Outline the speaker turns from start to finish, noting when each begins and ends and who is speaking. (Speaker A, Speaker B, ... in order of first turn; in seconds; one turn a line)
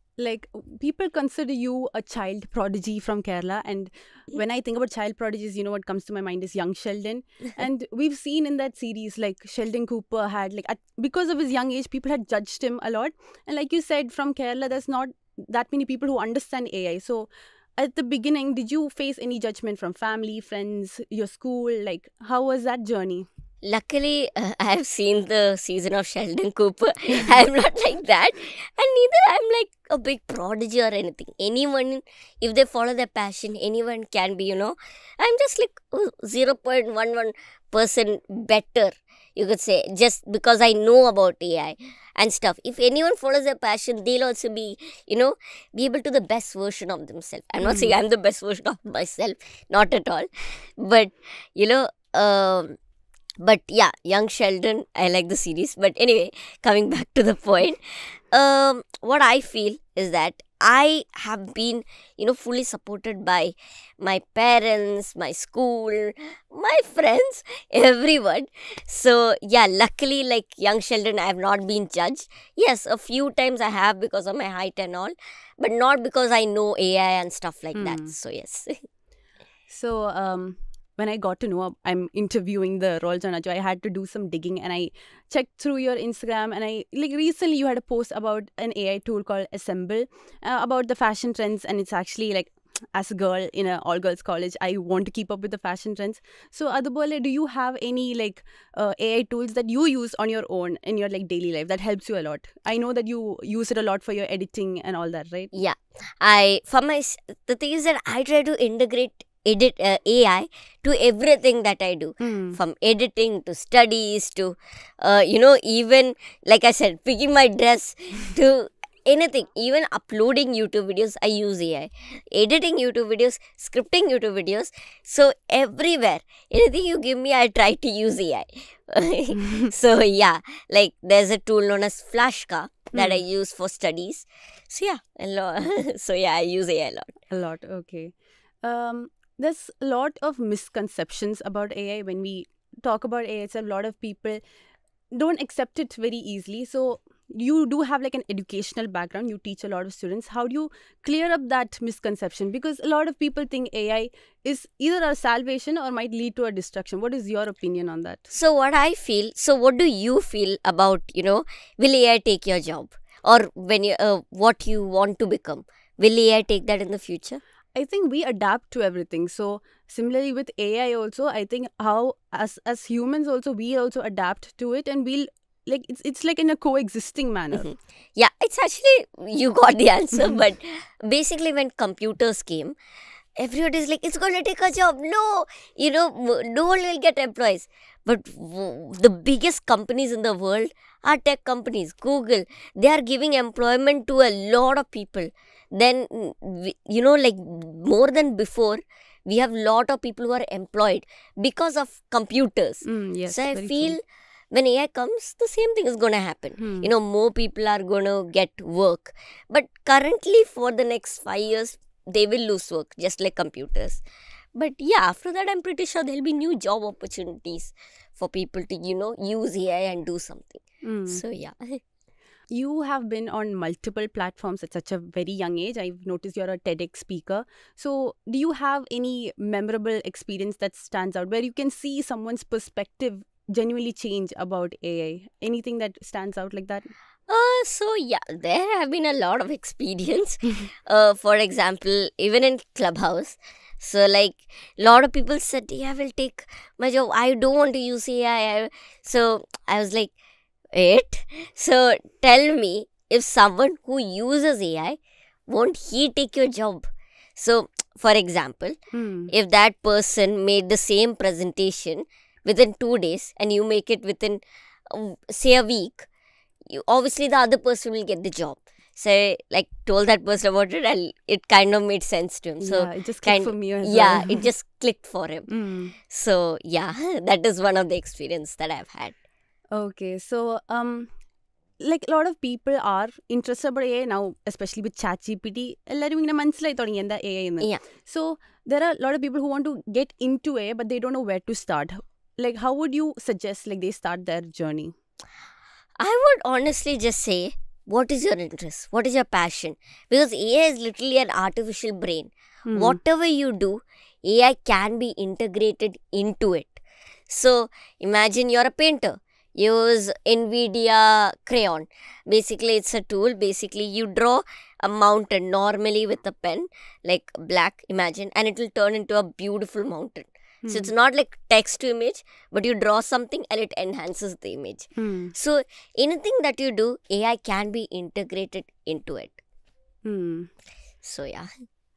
Speaker A: 0.2-23.3
Speaker B: 23.6-50.3
Speaker A: 47.6-47.9
Speaker B: 50.8-52.8
Speaker B: 53.4-78.7
Speaker A: 77.7-78.1
Speaker A: 79.7-105.5
Speaker B: 105.5-137.2
Speaker A: 112.2-112.6
Speaker A: 132.9-133.2
Speaker A: 137.3-144.4
Speaker A: 145.1-158.3
Speaker B: 158.3-167.4
Speaker A: 167.7-177.7
Speaker B: 178.2-182.8
Speaker B: 183.4-214.0
Speaker A: 202.8-204.0
Speaker A: 206.6-206.9
Speaker B: 214.5-221.8
Speaker A: 220.8-221.2
Speaker A: 222.5-236.9
Speaker B: 237.3-250.1
Speaker B: 250.7-255.0
Speaker B: 255.5-256.9
Speaker B: 257.4-258.8
Speaker A: 258.9-259.3
Speaker B: 259.3-266.1
Speaker B: 266.7-275.5
Speaker A: 272.6-274.5
Speaker A: 275.5-275.9
Speaker B: 276.1-279.2
Speaker A: 279.7-281.1
Speaker A: 281.8-294.9
Speaker B: 296.0-329.4
Speaker A: 302.6-303.0
Speaker A: 320.6-320.9
Speaker A: 325.0-325.3
Speaker A: 330.0-330.5
Speaker B: 331.0-331.5